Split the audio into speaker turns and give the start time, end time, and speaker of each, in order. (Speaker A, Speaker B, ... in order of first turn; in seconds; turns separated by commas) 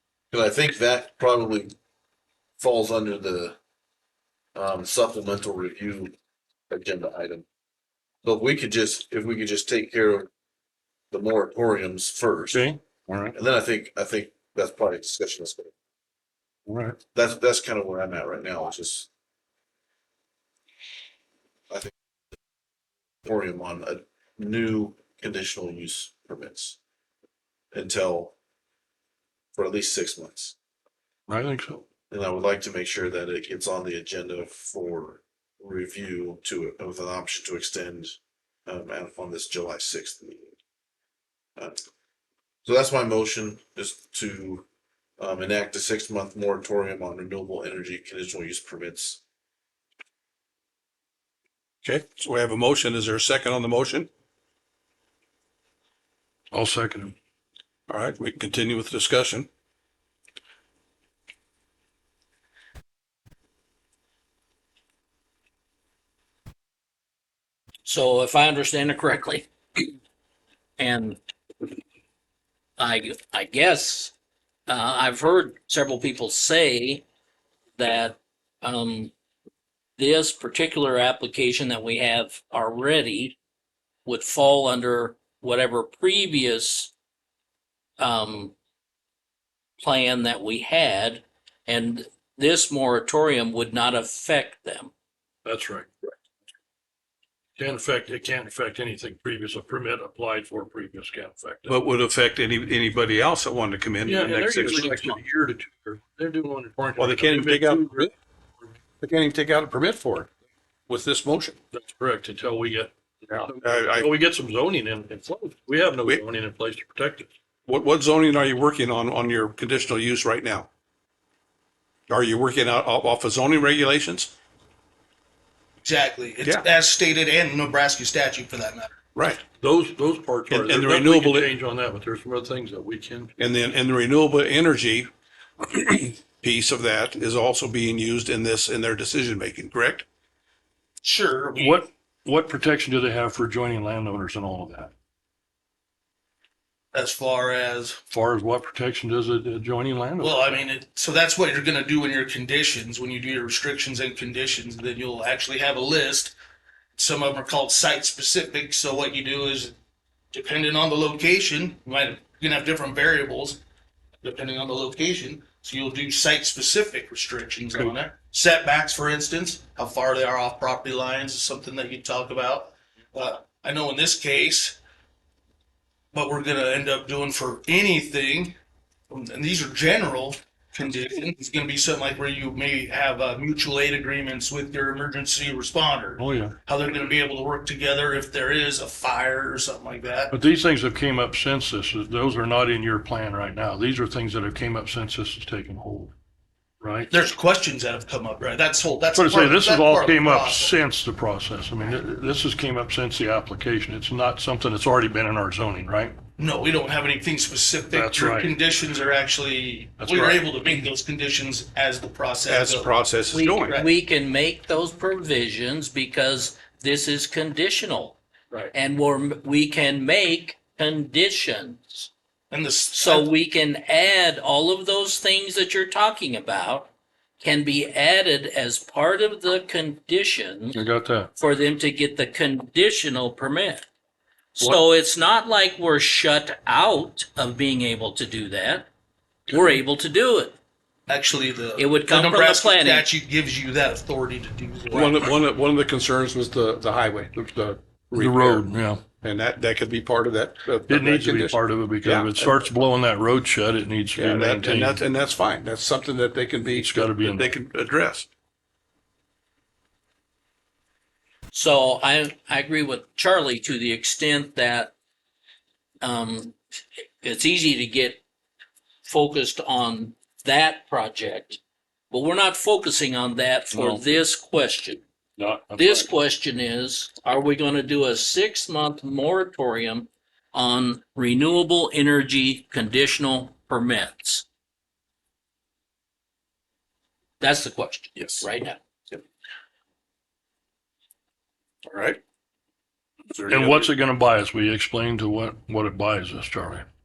Speaker A: 0.3-1.7, Speaker A: 2.6-3.5, Speaker A: 4.5-6.1, Speaker A: 6.7-7.5, Speaker A: 8.2-10.3, Speaker A: 11.1-12.6, Speaker B: 12.5-13.3, Speaker A: 13.3-15.7, Speaker B: 16.7-17.0, Speaker A: 17.1-19.1, Speaker A: 23.2-26.8, Speaker A: 27.7-28.3, Speaker A: 29.5-30.6, Speaker B: 31.3-31.8, Speaker A: 32.1-40.5, Speaker A: 42.6-44.7, Speaker A: 45.2-49.2, Speaker C: 51.8-54.1, Speaker B: 56.5-57.1, Speaker C: 57.9-59.5, Speaker D: 67.8-69.8, Speaker D: 70.8-71.2, Speaker D: 72.8-74.1, Speaker D: 74.7-77.0, Speaker D: 77.8-79.1, Speaker D: 80.0-83.4, Speaker D: 84.0-86.9, Speaker D: 88.0-88.5, Speaker D: 89.8-94.9, Speaker B: 95.4-95.9, Speaker B: 97.6-101.8, Speaker C: 101.7-105.1, Speaker B: 104.0-108.1, Speaker C: 107.0-108.1, Speaker C: 109.0-110.3, Speaker C: 110.9-111.6, Speaker B: 111.7-117.3, Speaker C: 113.3-114.1, Speaker C: 117.7-120.7, Speaker C: 122.1-124.3, Speaker E: 125.8-128.9, Speaker C: 129.2-129.4, Speaker B: 129.6-133.3, Speaker C: 130.5-131.5, Speaker C: 133.4-135.1, Speaker C: 135.6-140.1, Speaker E: 141.0-141.7, Speaker B: 141.6-144.9, Speaker E: 146.9-148.0, Speaker B: 148.1-150.6, Speaker E: 150.2-156.3, Speaker E: 157.0-159.7, Speaker E: 160.3-163.6, Speaker E: 164.2-174.8, Speaker E: 176.1-178.6, Speaker E: 179.1-190.3, Speaker B: 186.2-186.6, Speaker B: 190.3-196.1, Speaker B: 196.8-197.1, Speaker E: 197.1-200.7, Speaker B: 199.1-206.2, Speaker E: 206.4-212.9, Speaker B: 207.9-208.6, Speaker B: 210.0-210.9, Speaker C: 212.5-213.8, Speaker D: 213.3-218.2, Speaker D: 218.7-222.1, Speaker E: 222.5-223.3, Speaker D: 223.0-230.8, Speaker B: 230.7-231.3, Speaker D: 231.4-233.9, Speaker D: 234.6-238.9, Speaker D: 239.5-240.6, Speaker E: 241.1-245.2, Speaker D: 241.8-243.1, Speaker C: 244.9-248.7, Speaker B: 248.1-249.0, Speaker C: 249.2-252.6, Speaker B: 250.9-255.0, Speaker C: 254.2-258.3, Speaker B: 256.7-257.5, Speaker D: 261.5-264.9, Speaker D: 266.0-268.2, Speaker D: 269.0-271.6, Speaker D: 272.1-275.0, Speaker B: 273.7-274.0, Speaker B: 275.4-276.1, Speaker D: 275.8-284.4, Speaker D: 287.4-288.8, Speaker C: 288.2-288.4, Speaker C: 291.9-292.2, Speaker C: 293.3-293.9, Speaker B: 293.5-296.9